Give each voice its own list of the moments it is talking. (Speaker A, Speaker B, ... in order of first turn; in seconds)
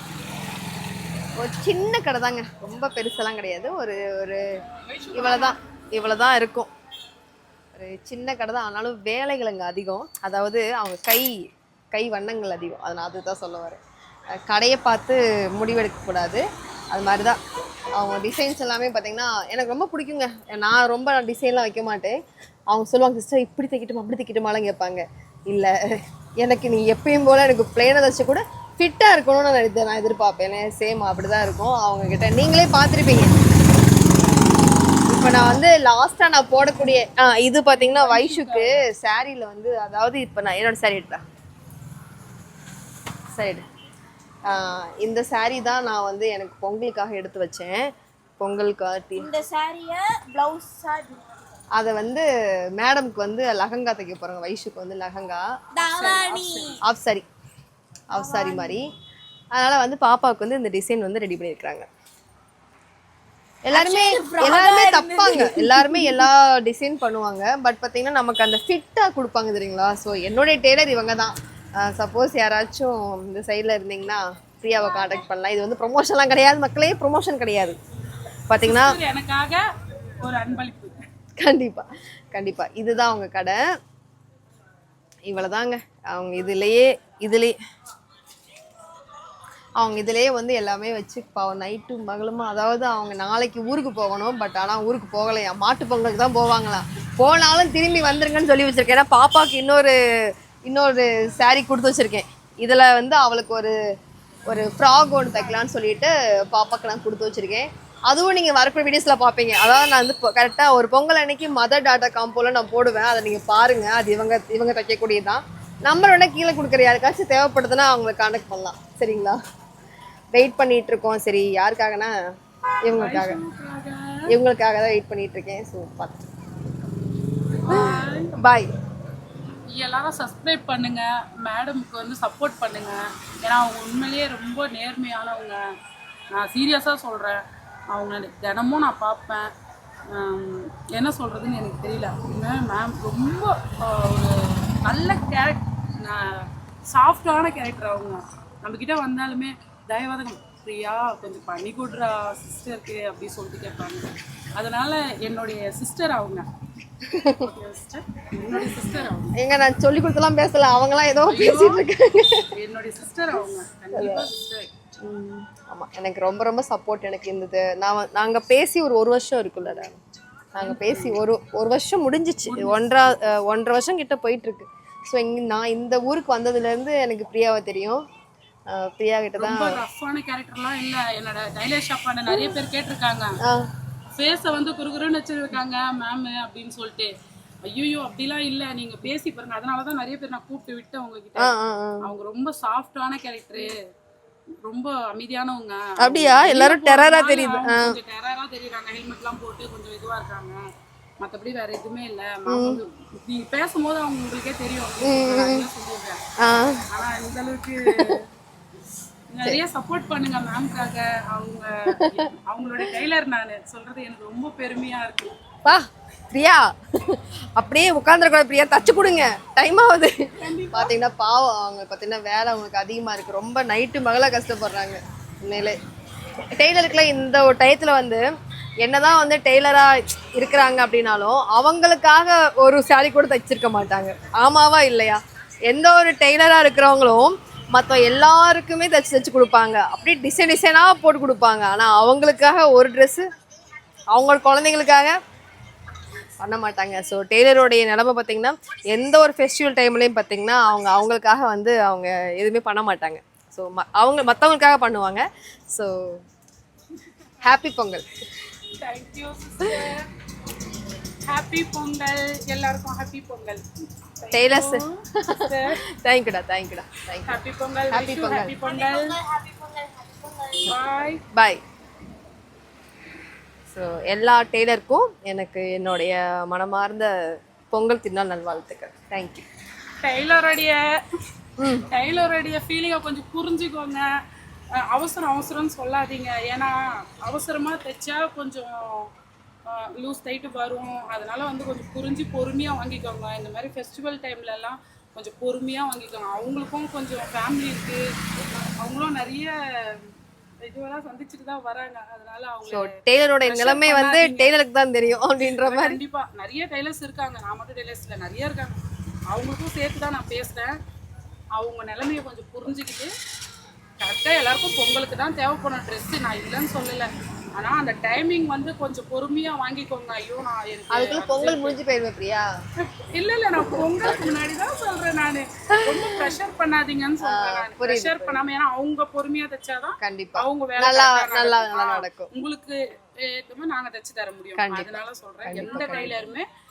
Speaker A: 1.4-4.4, 5.1-6.7, 7.8-13.8, 14.4-17.4, 18.0-22.2, 22.7-25.7, 26.4-33.3, 35.1-41.2, 43.3-43.6, 44.5-47.8, 48.4-49.3, 51.8-52.3, 52.8-55.4, 56.0-57.3, 58.1-58.8, 59.6-61.9, 63.6-77.8, 78.5-79.0, 81.4-83.6, 85.3-87.5, 89.8-99.9, 100.7-103.7, 104.5-119.4, 120.3-122.1, 122.8-123.4, 124.3-126.3, 127.7-128.7, 157.1-157.5, 159.3-162.5, 163.9-164.3, 165.0-170.0, 170.6-178.0, 178.7-179.8, 191.4-192.1, 196.0-198.0, 202.5-202.8, 205.0-205.7, 206.4-206.8, 211.9-212.3, 215.7-220.2, 220.7-225.8, 226.6-228.2, 228.8-243.2, 244.1-245.2, 246.4-255.9, 257.4-258.0, 264.3-267.4, 267.9-268.6, 271.3-271.6, 273.7-277.1, 277.7-279.5, 281.6-281.9, 302.7-306.0, 320.9-322.5, 323.7-324.1, 325.7-326.3, 327.2-328.5, 330.0-332.3, 334.6-336.2
Speaker B: 4.7-5.6, 37.7-38.8, 55.9-56.7, 78.6-79.6, 80.2-81.0, 122.9-124.2, 127.6-128.3, 129.7-135.6, 136.3-139.5, 140.1-156.5, 157.2-159.3, 161.2-161.8, 162.5-164.7, 170.6-171.2, 172.5-173.1, 179.4-183.3, 184.2-187.1, 187.7-191.5, 192.1-193.8, 194.6-200.6, 201.2-206.2, 206.9-208.2, 209.3-215.4, 220.4-220.9, 258.8-260.1, 261.3-263.6, 264.2-265.8, 267.3-269.2, 270.6-271.2, 280.0-280.8, 281.9-284.1, 284.8-289.1, 289.7-298.0, 298.8-300.1, 300.6-304.6, 305.5-310.7, 311.6-313.1, 314.0-321.8, 322.8-336.4
Speaker C: 49.2-51.3, 55.8-56.8, 58.1-58.8, 63.7-66.3, 268.8-270.7